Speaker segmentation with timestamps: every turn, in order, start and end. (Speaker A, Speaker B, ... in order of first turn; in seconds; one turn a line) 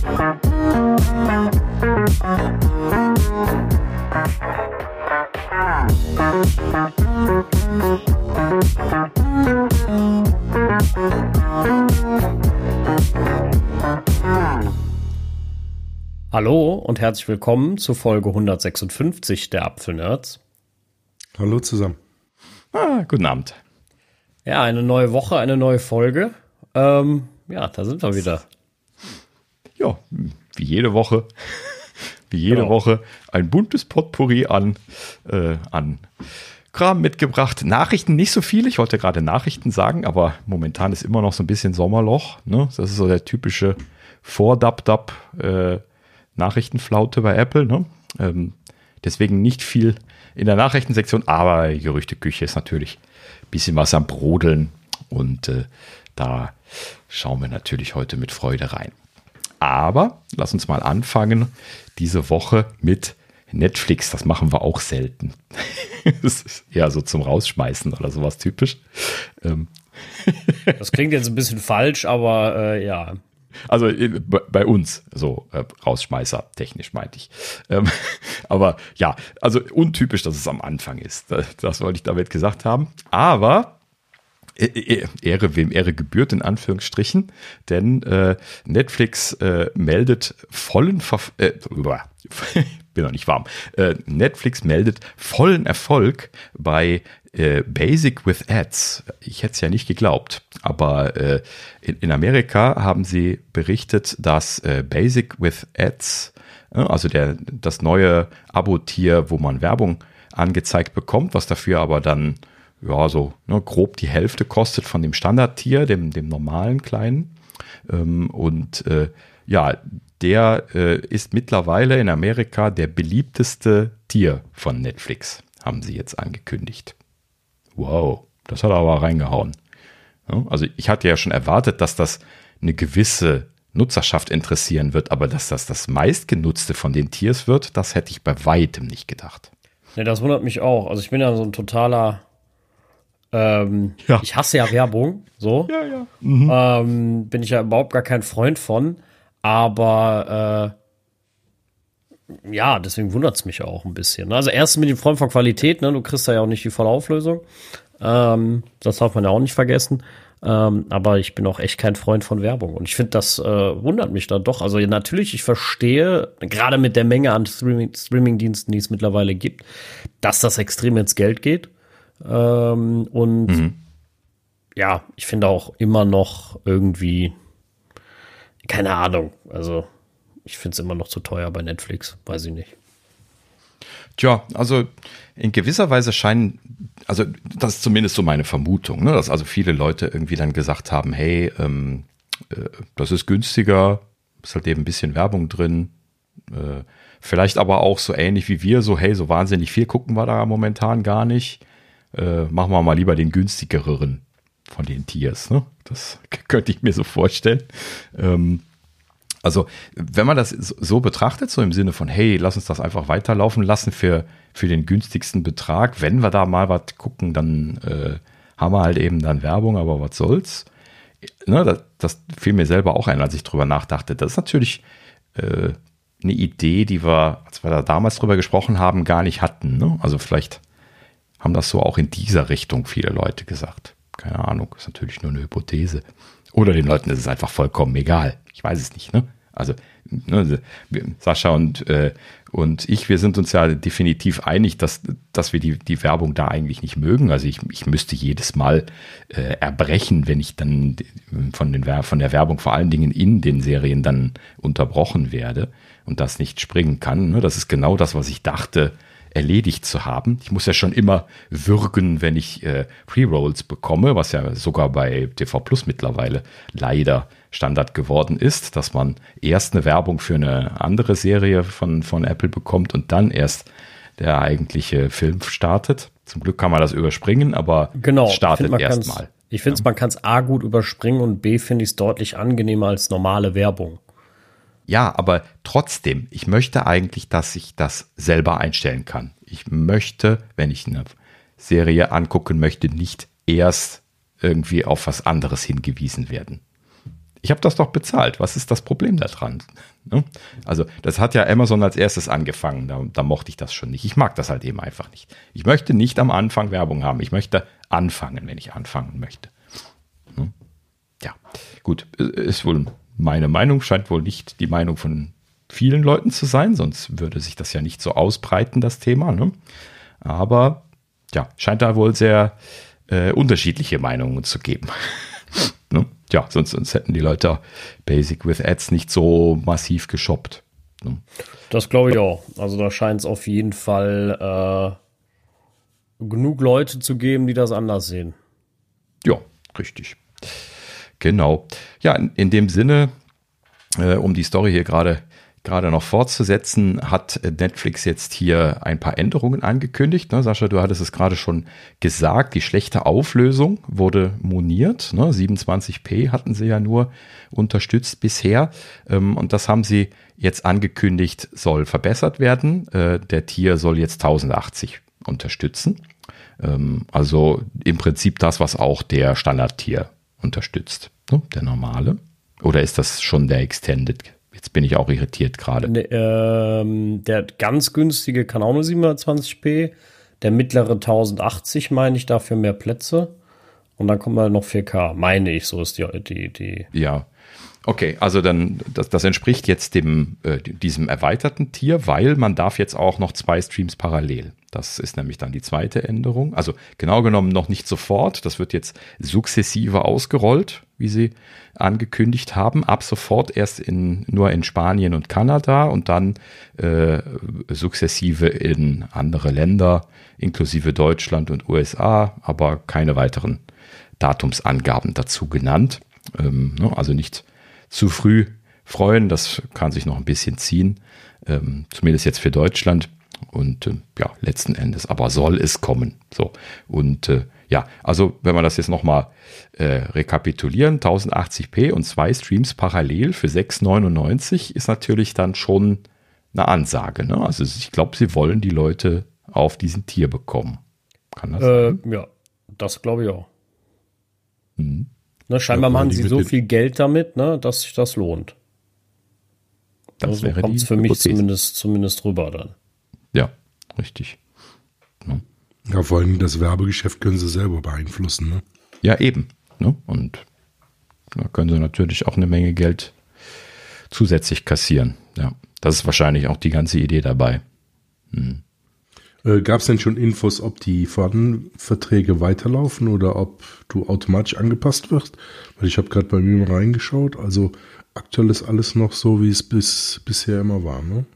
Speaker A: 16.3-20.4
Speaker B: 21.4-22.0
Speaker C: 22.7-23.6
Speaker A: 24.4-28.4
Speaker C: 29.8-36.1
Speaker A: 32.5-32.7
Speaker C: 36.7-45.8
Speaker C: 46.4-53.0
Speaker C: 53.5-58.9
Speaker C: 59.6-70.8
Speaker A: 70.8-73.2
Speaker C: 73.7-83.7
Speaker C: 84.6-117.3
Speaker C: 117.9-126.9
Speaker C: 127.8-129.6
Speaker C: 130.3-139.5
Speaker A: 139.9-142.2
Speaker A: 143.3-145.7
Speaker C: 145.7-146.6
Speaker A: 146.5-150.7
Speaker A: 152.4-157.4
Speaker A: 158.0-169.7
Speaker A: 170.2-171.7
Speaker A: 172.2-173.7
Speaker C: 173.5-173.7
Speaker A: 174.8-177.3
Speaker A: 178.6-179.9
Speaker A: 180.4-182.7
Speaker C: 184.2-195.9
Speaker C: 196.5-201.6
Speaker C: 202.1-208.6
Speaker C: 209.4-220.7
Speaker C: 221.4-224.8
Speaker C: 225.3-230.6
Speaker C: 231.4-279.8
Speaker A: 278.0-284.0
Speaker C: 284.9-296.6
Speaker C: 297.4-309.5
Speaker C: 311.2-319.6
Speaker C: 320.2-322.6
Speaker C: 323.1-331.2
Speaker A: 331.7-335.0
Speaker A: 336.2-338.4
Speaker C: 339.2-340.2
Speaker C: 341.2-343.1
Speaker C: 343.9-366.0
Speaker C: 366.6-375.9
Speaker A: 375.8-383.3
Speaker A: 384.0-386.9
Speaker C: 386.9-387.3
Speaker C: 387.8-413.6
Speaker C: 414.2-440.8
Speaker C: 441.3-442.0
Speaker A: 441.6-443.5
Speaker C: 444.8-445.1
Speaker A: 445.5-448.5
Speaker B: 445.7-446.5
Speaker C: 450.2-451.4
Speaker A: 450.2-452.7
Speaker C: 453.3-454.4
Speaker B: 455.9-458.6
Speaker C: 459.0-460.4
Speaker C: 461.3-463.1
Speaker C: 464.1-467.6
Speaker C: 468.3-468.6
Speaker B: 469.4-481.2